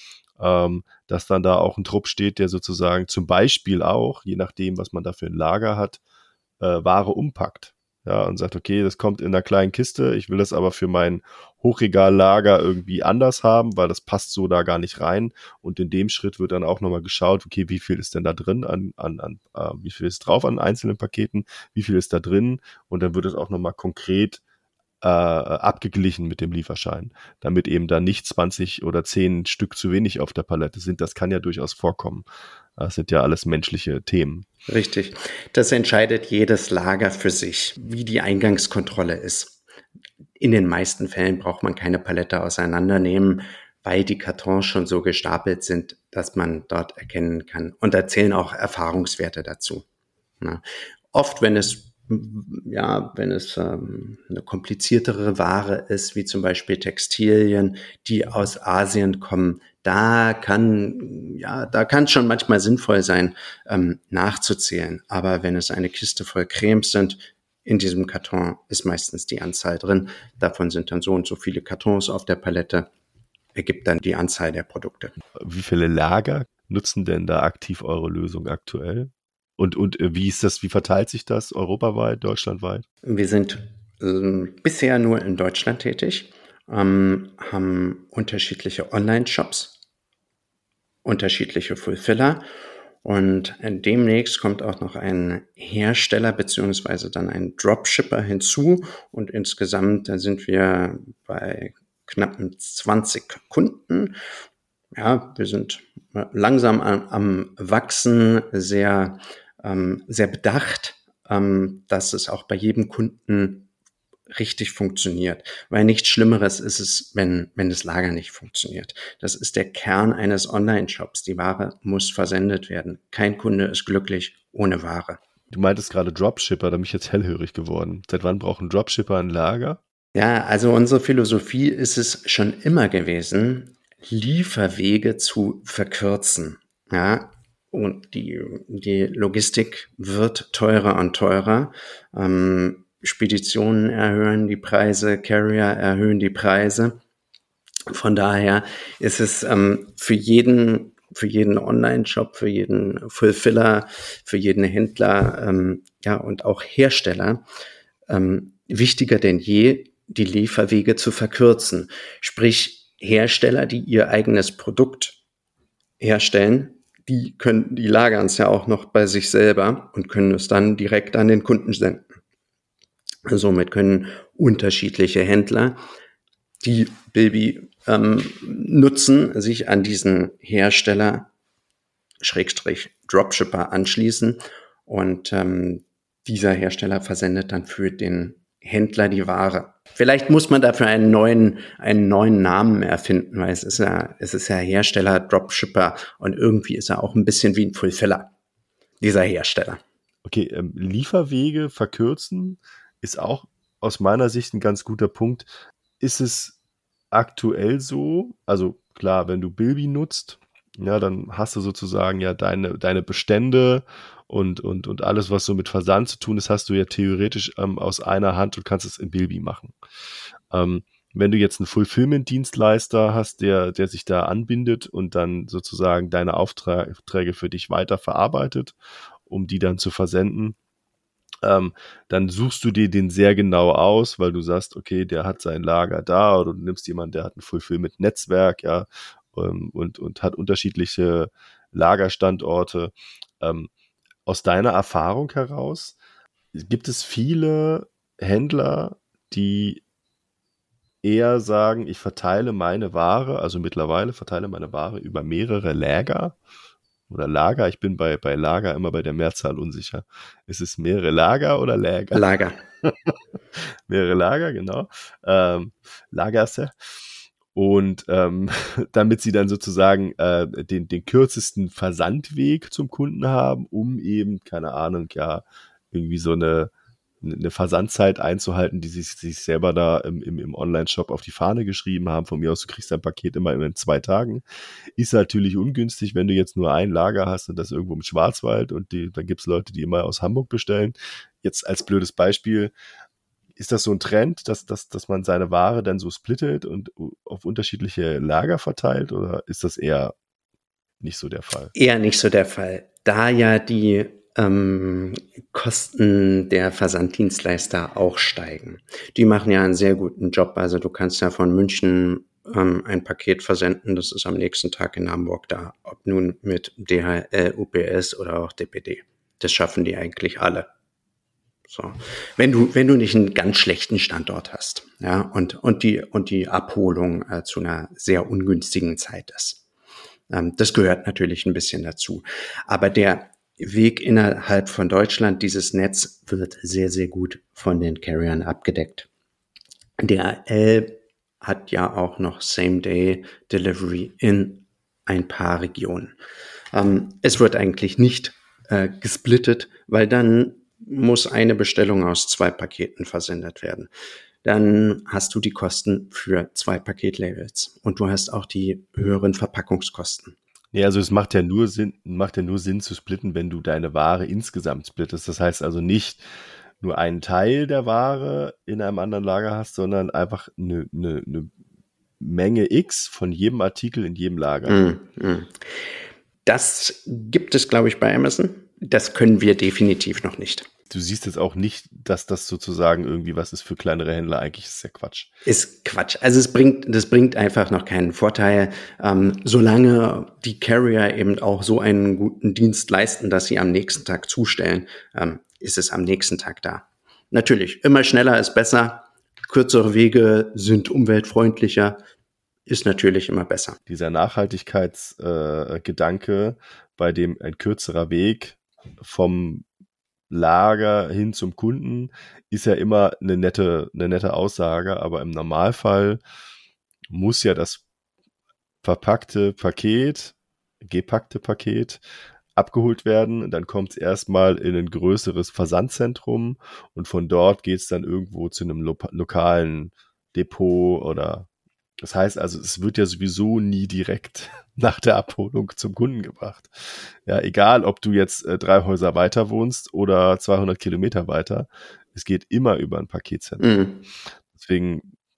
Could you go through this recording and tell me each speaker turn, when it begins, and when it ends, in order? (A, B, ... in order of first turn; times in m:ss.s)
0:00.4-0:06.0 A
0:06.6-0:24.4 A
0:25.0-0:32.2 A
0:32.8-0:34.5 A
0:34.7-0:39.6 B
0:40.4-0:49.8 B
0:50.4-1:12.9 B
1:13.5-1:15.1 B
1:15.4-1:22.8 A
1:23.0-1:29.8 B
1:31.0-1:32.4 B
1:33.0-1:44.2 B
1:44.9-1:53.7 B
1:54.3-2:05.2 B
2:05.5-2:09.8 A
2:10.1-2:27.0 B
2:27.9-2:37.4 B
2:38.1-2:45.2 B
2:46.0-2:52.1 B
2:53.2-2:55.8 B
2:56.6-3:01.3 B
3:02.2-3:18.3 B
3:19.0-3:19.8 B
3:20.2-3:25.5 A
3:26.0-3:26.5 A
3:27.1-3:39.7 A
3:40.5-3:48.8 A
3:49.3-3:50.6 A
3:51.4-4:03.7 A
4:04.2-4:06.0 A
4:06.5-4:09.8 A
4:11.0-4:16.4 A
4:17.1-4:22.2 A
4:22.1-4:22.6 B
4:22.8-4:26.7 A
4:27.5-4:36.7 A
4:37.2-4:44.4 A
4:45.0-4:52.7 A
4:53.6-5:00.1 A
5:01.0-5:01.7 A
5:01.7-5:20.7 B
5:21.7-5:29.6 B
5:30.3-5:39.1 B
5:40.0-5:46.1 B
5:46.7-5:53.9 B
5:54.4-6:00.4 B
6:00.7-6:06.2 A
6:06.8-6:11.5 A
6:12.2-6:14.8 A
6:14.6-6:15.6 B
6:16.4-6:20.7 B
6:20.9-6:25.3 A
6:25.4-6:42.0 B
6:42.7-6:43.8 B
6:43.9-6:49.6 A
6:50.3-6:56.2 A
6:57.1-6:57.8 A
6:58.8-7:02.0 A
7:02.6-7:11.5 A
7:12.0-7:23.7 A
7:23.6-7:24.0 B
7:24.5-7:25.1 A